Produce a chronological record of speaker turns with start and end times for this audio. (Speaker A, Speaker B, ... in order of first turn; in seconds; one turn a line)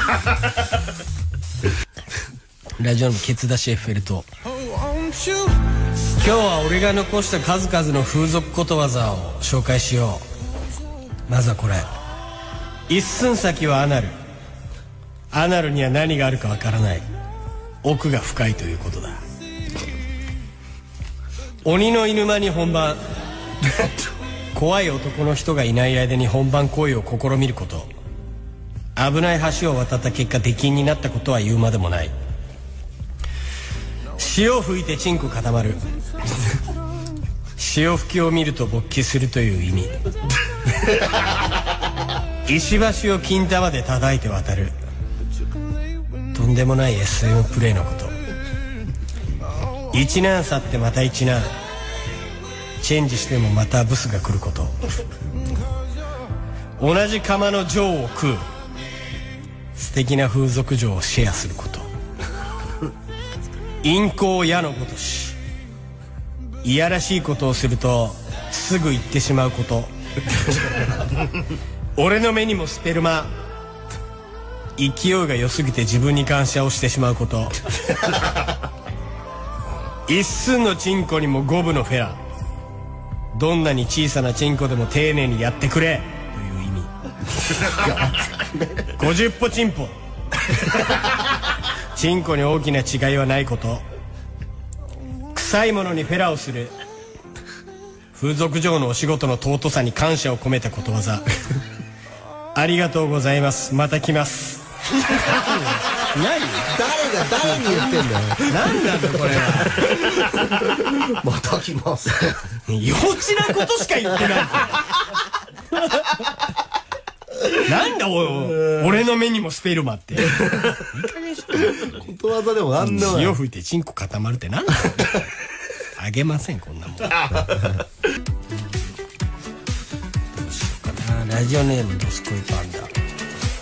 Speaker A: 2.8-4.3
Speaker A: 6.1-10.2
Speaker A: 11.3-11.9
Speaker A: 12.9-14.2
Speaker A: 15.3-17.1
Speaker A: 17.8-19.2
Speaker A: 21.6-23.0
Speaker A: 24.5-27.9
Speaker A: 28.9-32.1
Speaker A: 34.2-35.8
Speaker A: 37.6-39.9
Speaker A: 42.5-44.7
Speaker A: 46.3-48.2
Speaker A: 49.9-51.5
Speaker A: 52.8-54.8
Speaker A: 56.8-58.4
Speaker A: 59.8-61.9
Speaker A: 63.8-65.4
Speaker A: 66.6-69.9
Speaker A: 72.0-73.3
Speaker A: 74.8-77.6
Speaker A: 80.1-82.2
Speaker A: 83.3-86.9
Speaker B: 87.7-88.8
Speaker A: 88.9-89.9
Speaker A: 91.9-93.8
Speaker A: 95.3-96.7
Speaker A: 98.1-101.3
Speaker A: 102.5-106.7
Speaker B: 106.7-112.5
Speaker A: 108.4-109.9
Speaker A: 112.7-114.9
Speaker A: 115.7-116.3
Speaker A: 117.5-122.1
Speaker B: 120.3-120.7
Speaker B: 121.8-123.4
Speaker A: 122.8-125.2
Speaker A: 126.0-127.4
Speaker B: 127.4-127.7
Speaker A: 130.4-132.9